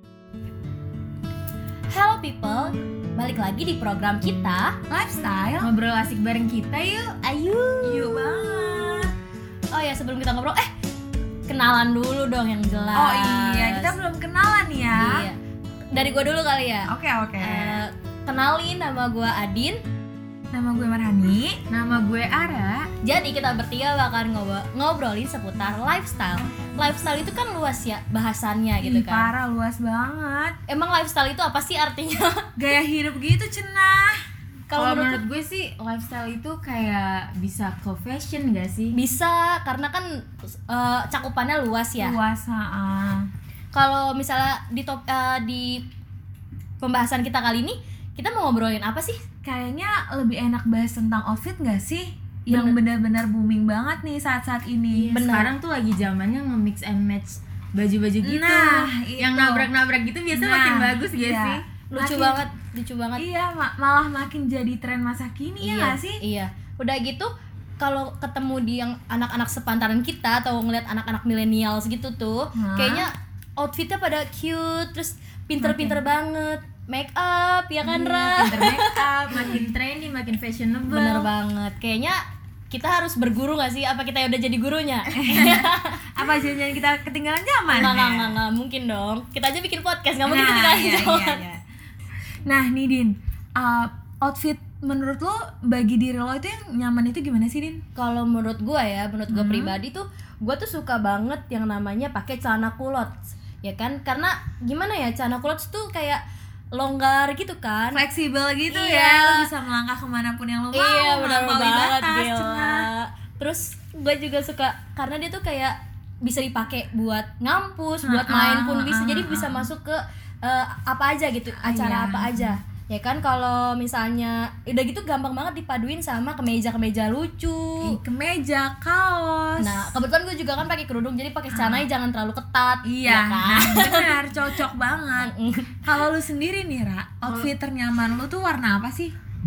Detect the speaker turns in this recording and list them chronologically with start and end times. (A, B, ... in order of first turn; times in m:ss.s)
0:01.9-0:04.7 A
0:04.9-0:05.7 B
0:05.6-0:07.6 C
0:07.4-0:09.0 A
0:07.8-0:09.1 B
0:09.7-0:10.7 A
0:11.5-0:13.9 A
0:12.9-0:15.2 B
0:14.9-0:15.4 A
0:15.9-0:19.8 A
0:16.9-0:17.8 B
0:20.5-0:21.6 B
0:21.7-0:22.9 C
0:23.0-0:29.3 A
0:28.8-0:30.6 B
0:30.7-0:32.4 A
0:32.6-0:34.1 B
0:34.7-0:35.2 A
0:34.7-0:38.9 C
0:38.9-0:42.2 A
0:42.0-0:43.3 B
0:43.7-0:45.8 A
0:46.8-0:49.2 A
0:49.4-0:55.1 B
0:52.5-0:52.8 A
0:55.0-1:01.6 C
0:55.1-0:55.5 A
0:58.2-0:59.7 B
1:00.3-1:02.4 B
1:01.9-1:03.2 A
1:03.2-1:06.2 B
1:05.6-1:07.3 A
1:07.8-1:18.9 A
1:12.6-1:13.1 B
1:15.6-1:16.0 B
1:17.8-1:21.3 C
1:20.9-1:22.2 A
1:22.7-1:26.0 A
1:25.1-1:28.4 B
1:27.7-1:31.4 A
1:30.2-1:31.6 B
1:32.4-1:37.8 B
1:37.9-1:46.2 A
1:39.3-1:39.8 B
1:46.7-1:48.0 A
1:47.9-1:52.9 B
1:48.7-1:49.4 A
1:50.7-2:08.0 A
1:58.0-1:59.7 B
2:01.5-2:02.5 B
2:07.8-2:09.9 B
2:09.6-2:14.1 A
2:11.5-2:11.8 B
2:12.8-2:15.3 B
2:15.2-2:15.7 A
2:15.8-2:19.1 B
2:17.2-2:17.5 C